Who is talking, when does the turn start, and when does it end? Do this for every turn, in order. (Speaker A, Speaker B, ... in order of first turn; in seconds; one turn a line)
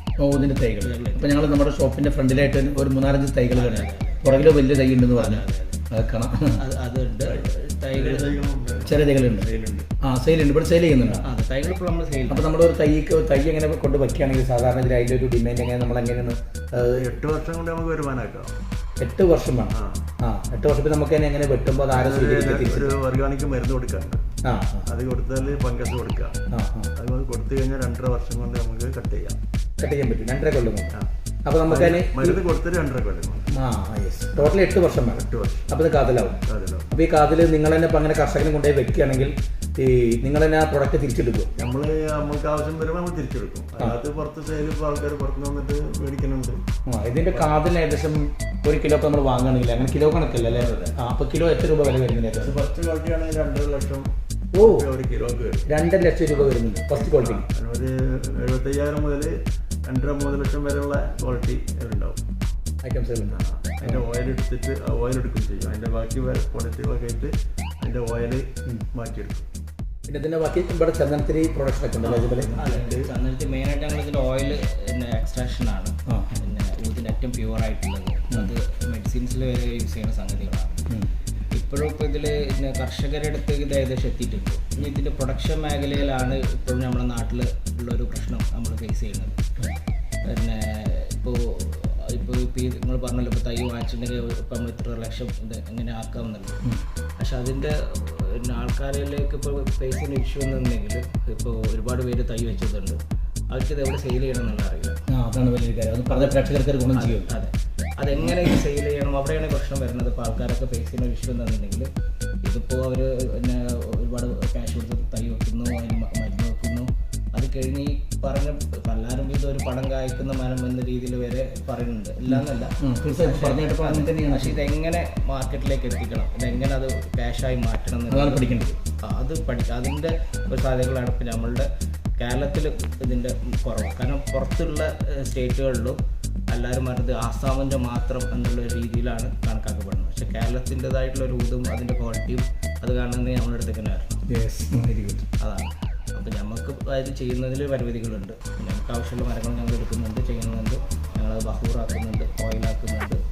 Speaker A: 0.2-6.6
Speaker B: 0.8-1.4
Speaker B: 3.5-4.2
Speaker B: 5.2-5.8
Speaker B: 6.5-8.4
Speaker C: 7.9-9.8
Speaker A: 8.8-11.2
Speaker B: 11.2-12.5
Speaker A: 12.3-17.1
Speaker C: 16.8-18.5
Speaker A: 19.0-23.0
Speaker C: 19.7-20.0
Speaker C: 21.9-24.3
Speaker A: 24.4-24.9
Speaker C: 24.9-26.4
Speaker A: 26.5-26.9
Speaker C: 27.0-29.4
Speaker A: 29.8-32.4
Speaker C: 31.7-33.5
Speaker A: 33.5-36.4
Speaker C: 34.4-35.7
Speaker C: 36.5-36.9
Speaker A: 36.9-41.5
Speaker C: 41.6-46.6
Speaker A: 46.9-52.6
Speaker C: 47.3-47.6
Speaker C: 50.6-50.9
Speaker C: 52.4-55.6
Speaker A: 54.5-54.9
Speaker A: 55.7-57.5
Speaker C: 56.3-59.3
Speaker C: 59.9-62.2
Speaker A: 62.8-64.1
Speaker C: 63.3-69.5
Speaker A: 70.1-73.0
Speaker B: 72.0-80.8
Speaker C: 72.7-73.0
Speaker A: 76.1-76.4
Speaker B: 81.5-89.4
Speaker B: 90.2-96.6
Speaker B: 97.2-103.0
Speaker B: 103.5-105.0
Speaker A: 105.1-107.3
Speaker B: 106.9-111.9
Speaker B: 112.4-136.0
Speaker A: 122.3-124.7
Speaker A: 128.1-128.8
Speaker B: 136.5-144.2
Speaker A: 144.3-145.3
Speaker B: 145.4-153.2